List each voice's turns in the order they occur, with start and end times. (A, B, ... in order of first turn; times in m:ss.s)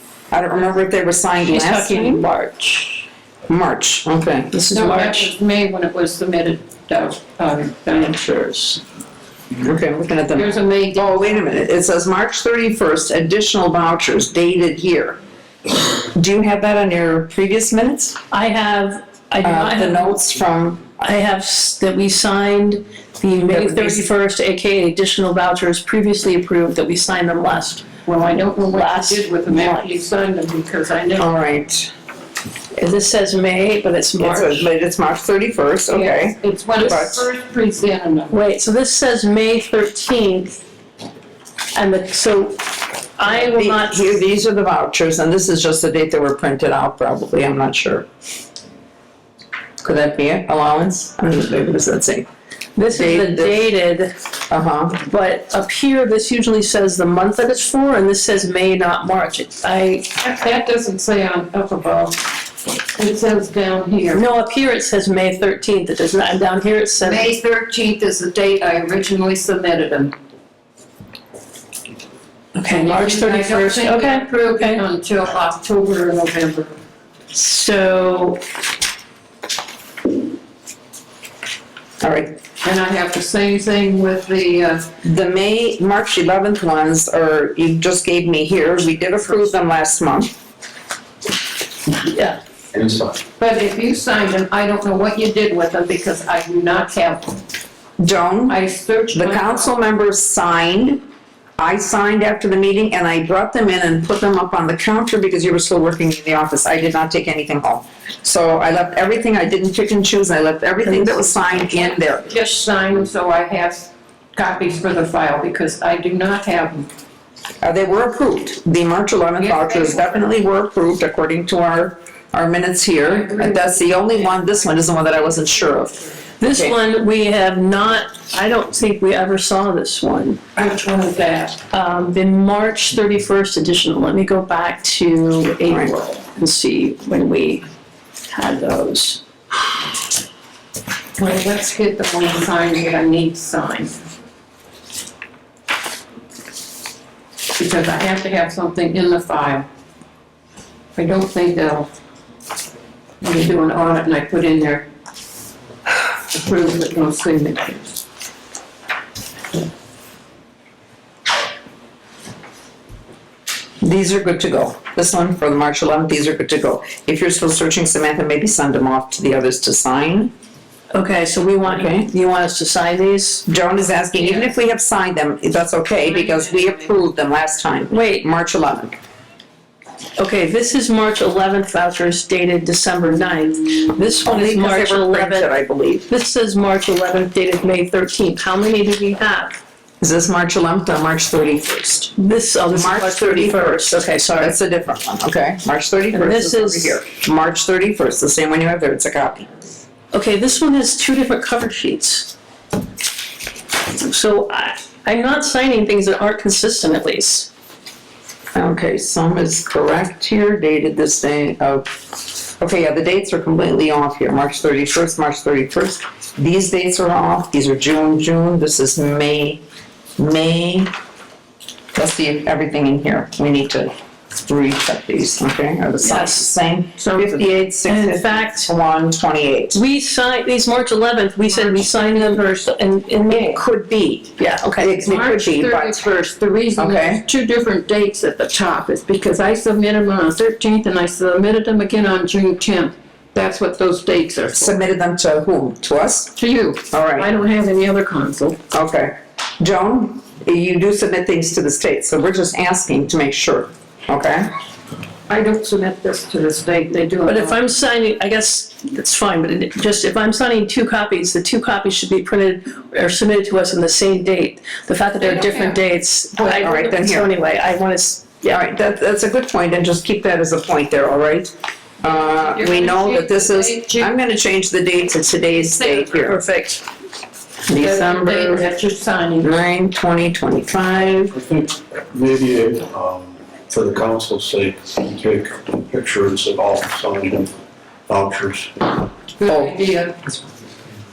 0:00.3-0:02.2 A
0:01.4-0:03.0 B
0:03.5-0:04.5 A
0:04.5-0:05.3 B
0:04.7-0:08.2 C
0:07.9-0:08.8 B
0:09.6-0:15.2 A
0:10.3-0:11.6 C
0:16.0-0:18.2 A
0:18.3-0:20.3 B
0:19.4-0:20.8 A
0:21.0-0:27.9 B
0:23.4-0:24.1 C
0:28.0-0:31.3 C
0:28.7-0:29.8 B
0:31.2-0:31.9 A
0:32.8-0:34.7 B
0:34.2-0:37.3 A
0:35.9-0:38.4 C
0:38.3-0:40.6 B
0:41.7-0:44.2 B
0:43.4-0:48.1 A
0:49.8-0:52.3 A
0:52.8-0:54.1 B
0:52.9-0:53.6 A
0:54.5-0:55.0 A
0:55.0-1:00.1 B
1:00.2-1:02.3 C
1:02.9-1:04.2 C
1:04.1-1:07.3 B
1:07.0-1:10.1 C
1:12.5-1:14.8 B
1:12.7-1:16.7 C
1:17.3-1:18.4 B
1:22.0-1:22.4 A
1:22.6-1:24.9 C
1:25.0-1:30.4 A
1:32.0-1:32.4 B
1:32.7-1:33.2 D
1:33.4-1:37.4 C
1:38.0-1:38.6 A
1:38.5-1:39.6 C
1:39.1-1:41.0 A
1:41.6-1:52.3 A
1:50.8-1:56.9 C
1:57.6-2:06.8 A
1:59.4-2:00.4 C
2:03.0-2:06.2 C
2:06.4-2:10.4 B
2:10.5-2:11.6 C
2:11.7-2:17.6 B
2:18.3-2:19.2 B
2:21.2-2:24.0 C
2:27.6-2:29.7 C
2:31.0-2:31.9 C
2:33.2-2:34.8 C
2:36.3-2:38.0 C
2:43.8-2:50.3 A
2:50.9-2:53.4 B
2:51.6-2:52.0 A
2:53.5-2:59.0 A
2:54.2-2:54.5 C
2:56.0-2:56.9 C
2:57.9-2:58.2 B
3:00.2-3:05.5 B
3:04.2-3:06.1 A
3:06.1-3:09.6 B
3:10.0-3:12.1 A
3:12.2-3:14.6 B
3:12.7-3:19.5 A
3:16.1-3:17.0 B
3:20.1-3:22.3 B
3:23.9-3:27.5 B
3:28.5-3:39.6 A
3:40.2-3:40.9 A
3:41.9-3:49.8 A
3:46.0-3:47.2 B
3:47.8-3:48.7 B
3:49.7-3:53.6 B
3:51.5-3:52.4 C
3:53.3-3:56.0 A
3:54.4-3:55.0 B
3:55.0-4:04.8 C
3:56.8-3:57.2 A
4:04.5-4:06.3 A
4:06.4-4:08.6 C
4:06.9-4:07.3 A
4:08.7-4:14.5 A
4:15.3-4:17.6 C
4:17.2-4:28.5 B
4:25.2-4:25.8 C
4:26.4-4:27.3 A
4:28.4-4:36.4 A
4:32.0-4:34.1 C
4:35.6-4:36.3 C
4:36.2-4:36.8 B
4:37.7-4:38.7 A
4:37.7-4:39.6 C
4:39.4-4:41.3 A
4:41.3-4:47.6 D
4:48.1-4:49.0 D
4:49.4-4:50.5 C
4:49.5-4:49.7 A